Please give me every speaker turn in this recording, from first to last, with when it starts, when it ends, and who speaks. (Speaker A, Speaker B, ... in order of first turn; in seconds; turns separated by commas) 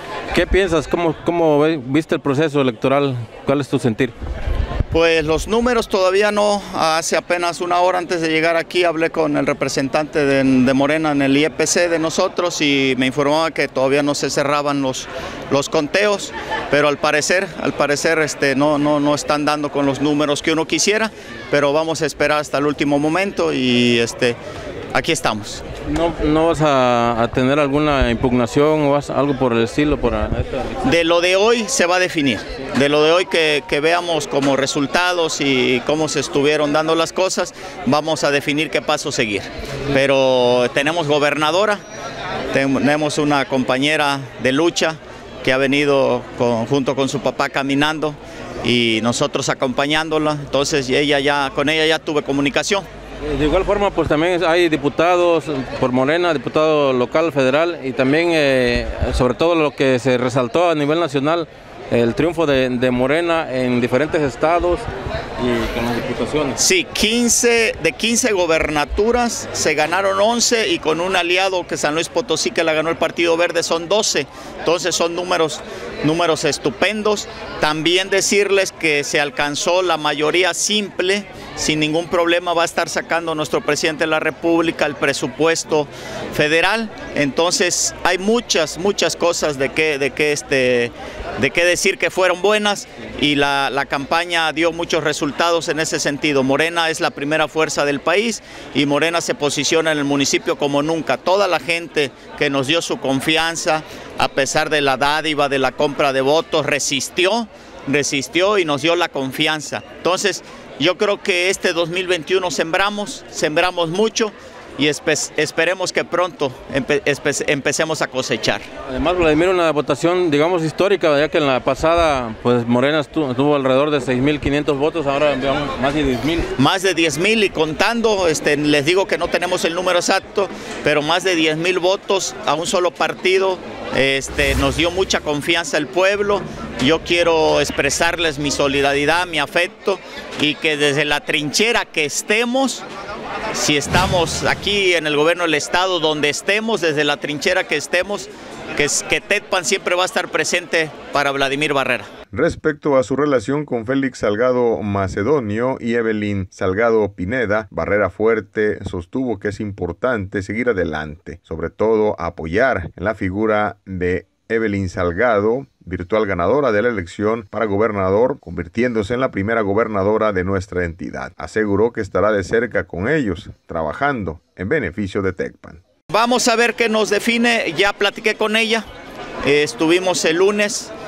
Speaker A: 0.3-4.1, Speaker B: 4.9-24.4, Speaker B: 24.9-25.6, Speaker A: 25.8-30.8, Speaker B: 30.8-41.8, Speaker B: 42.5-52.9, Speaker A: 53.2-64.9, Speaker A: 65.4-66.6, Speaker B: 66.6-118.7, Speaker A: 118.9-126.5, Speaker B: 126.6-142.8, Speaker B: 143.5-152.1, Speaker C: 152.3-175.8, Speaker B: 176.1-178.9, Speaker B: 179.4-180.9